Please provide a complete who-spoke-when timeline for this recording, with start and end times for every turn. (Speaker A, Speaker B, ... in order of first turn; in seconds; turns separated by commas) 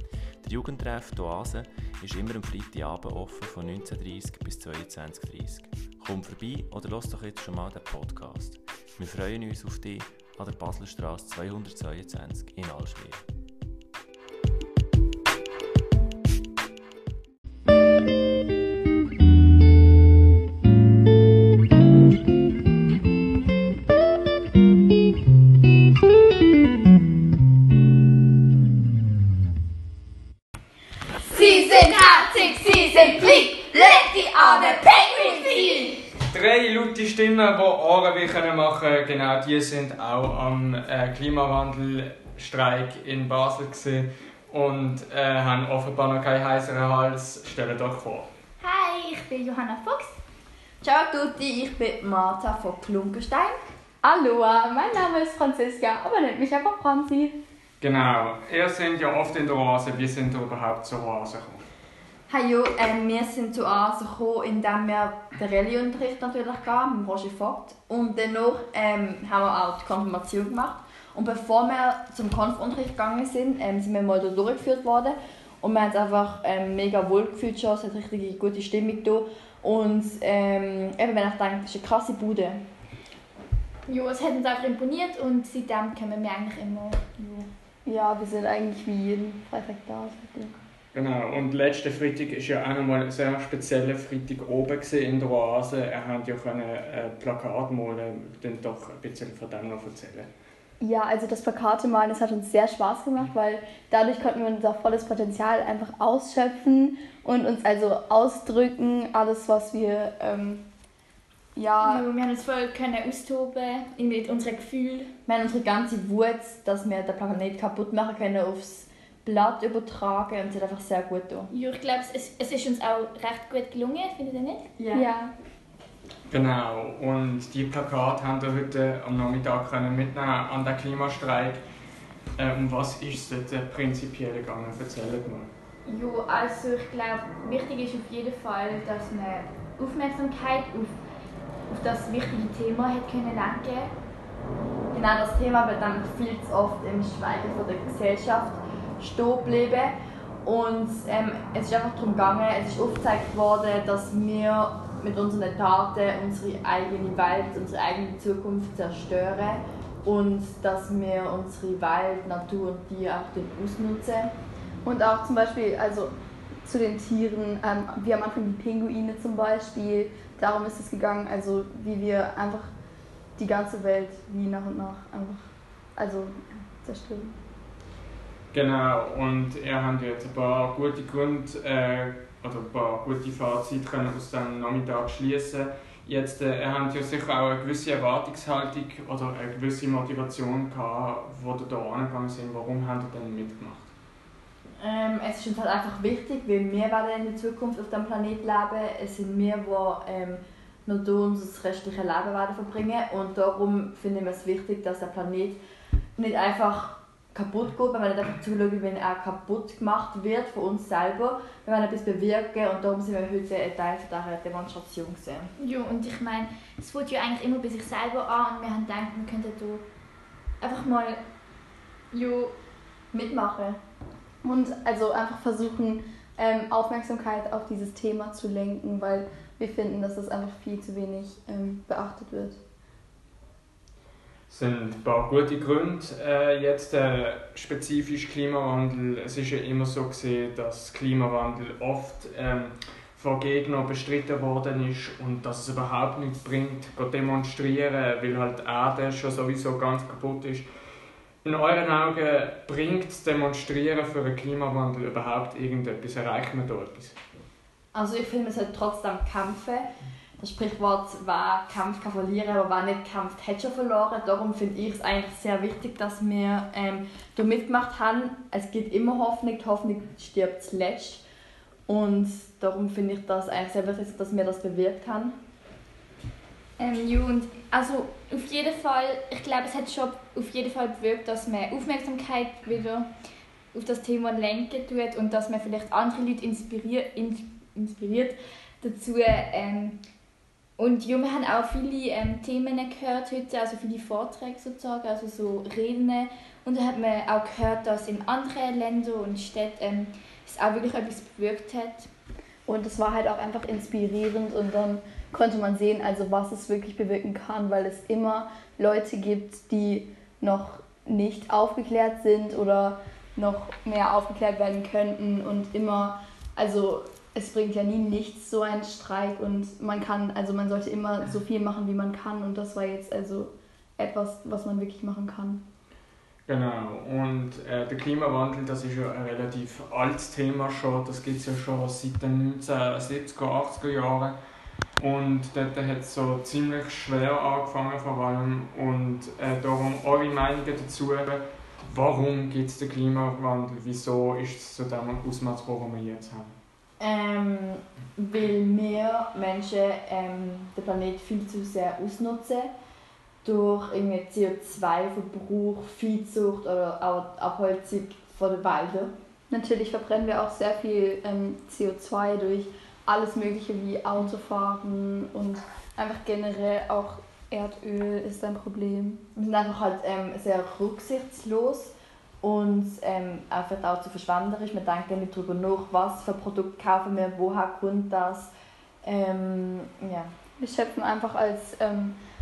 Speaker A: 0.4-13.2, Speaker B: 31.2-36.0, Speaker C: 36.3-48.3, Speaker D: 48.6-50.2, Speaker B: 50.8-53.6, Speaker E: 54.0-57.4, Speaker C: 57.8-61.6, Speaker B: 62.3-82.7, Speaker D: 83.9-87.5, Speaker E: 87.9-90.6, Speaker C: 90.9-100.3, Speaker E: 100.8-110.7, Speaker E: 111.5-112.1, Speaker D: 111.8-115.1, Speaker B: 115.3-121.5, Speaker D: 121.5-124.7, Speaker B: 124.8-125.1, Speaker E: 124.9-125.3, Speaker C: 126.3-131.6, Speaker C: 132.4-135.5, Speaker D: 135.9-141.0, Speaker D: 141.7-143.9, Speaker B: 144.9-149.9, Speaker B: 150.4-164.3, Speaker E: 164.8-166.1, Speaker E: 166.7-172.7, Speaker E: 173.4-177.4, Speaker C: 178.5-193.9, Speaker B: 194.8-205.6, Speaker B: 206.2-215.5, Speaker D: 215.6-219.8, Speaker D: 220.6-221.2, Speaker D: 222.1-222.5, Speaker B: 223.1-223.8, Speaker E: 224.4-232.6, Speaker C: 234.5-250.7, Speaker C: 251.4-257.1, Speaker B: 257.9-259.9, Speaker B: 260.4-271.2, Speaker B: 271.9-275.4, Speaker D: 276.8-283.1, Speaker D: 283.7-290.0, Speaker D: 290.8-302.1, Speaker E: 302.7-325.6, Speaker C: 326.5-334.4, Speaker C: 335.0-346.6, Speaker B: 347.0-352.7, Speaker B: 353.4-359.1, Speaker E: 359.5-369.2, Speaker B: 369.4-378.5, Speaker B: 379.0-380.3, Speaker E: 380.6-382.2